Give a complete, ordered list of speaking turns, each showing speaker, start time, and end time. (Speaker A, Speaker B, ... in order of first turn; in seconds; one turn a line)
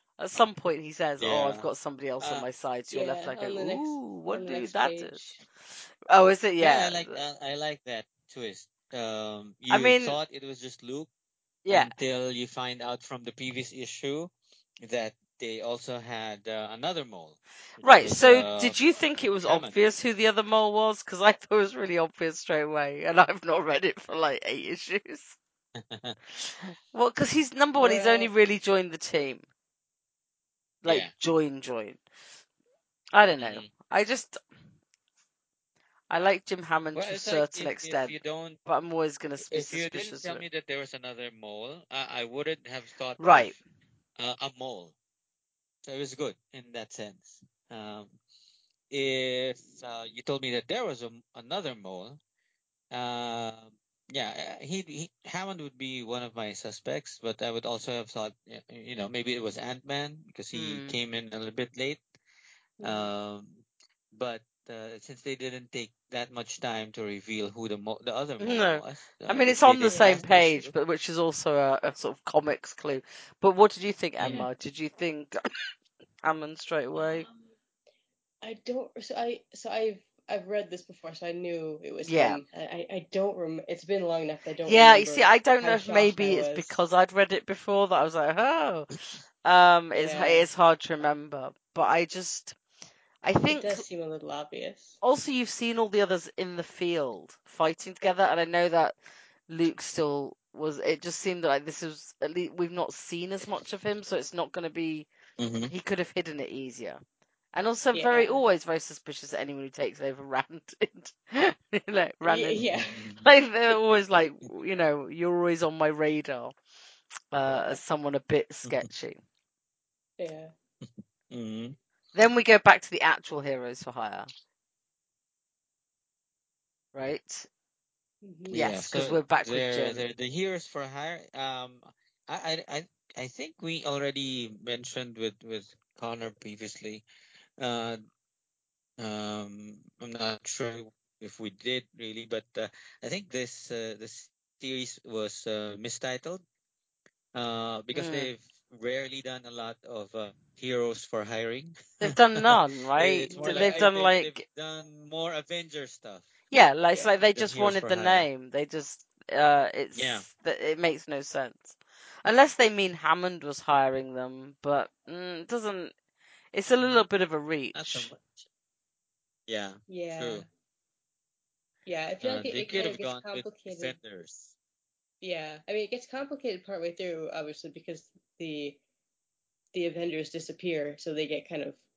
Speaker A: 0.2-5.2
Speaker B: 1.2-1.7
Speaker B: 2.2-2.5
Speaker C: 2.9-5.4
Speaker A: 6.1-7.2
Speaker B: 6.6-11.1
Speaker A: 9.7-10.2
Speaker A: 11.6-11.9
Speaker B: 11.7-18.8
Speaker A: 17.8-25.4
Speaker B: 19.4-19.7
Speaker B: 25.8-26.2
Speaker A: 26.9-29.4
Speaker C: 27.8-28.3
Speaker A: 30.8-32.0
Speaker B: 30.8-31.1
Speaker A: 33.1-34.4
Speaker B: 33.4-33.7
Speaker A: 36.1-40.4
Speaker B: 36.9-38.6
Speaker B: 39.5-43.6
Speaker A: 43.2-43.5
Speaker B: 44.2-44.9
Speaker B: 45.8-48.2
Speaker B: 48.9-52.2
Speaker B: 52.9-62.0
Speaker A: 60.5-60.9
Speaker C: 62.8-63.1
Speaker B: 62.8-70.7
Speaker A: 68.4-75.3
Speaker C: 69.9-70.2
Speaker B: 74.2-74.5
Speaker C: 74.2-74.5
Speaker A: 76.2-77.3
Speaker C: 78.4-86.8
Speaker A: 82.0-82.4
Speaker A: 84.7-88.9
Speaker A: 89.4-92.5
Speaker C: 89.9-90.5
Speaker A: 93.2-93.8
Speaker C: 93.5-95.0
Speaker A: 95.0-99.0
Speaker A: 99.5-105.1
Speaker B: 105.4-105.7
Speaker A: 105.7-107.0
Speaker A: 107.5-112.6
Speaker C: 107.9-108.4
Speaker C: 112.2-113.0
Speaker B: 112.7-113.3
Speaker A: 113.2-116.5
Speaker A: 117.3-119.2
Speaker C: 117.5-117.8
Speaker C: 120.2-120.5
Speaker B: 120.8-121.8
Speaker A: 122.1-124.3
Speaker A: 126.9-127.5
Speaker C: 128.2-128.6
Speaker B: 128.5-137.1
Speaker A: 128.5-130.0
Speaker B: 137.6-138.0
Speaker B: 139.0-146.4
Speaker B: 147.3-156.3
Speaker A: 147.9-148.3
Speaker A: 152.0-154.4
Speaker C: 153.3-153.7
Speaker A: 156.5-165.9
Speaker B: 157.3-158.3
Speaker B: 159.9-160.3
Speaker A: 166.5-168.1
Speaker B: 167.7-168.4
Speaker B: 169.5-170.4
Speaker C: 169.9-170.5
Speaker C: 171.8-174.0
Speaker B: 172.2-174.5
Speaker C: 175.2-178.8
Speaker C: 179.7-181.8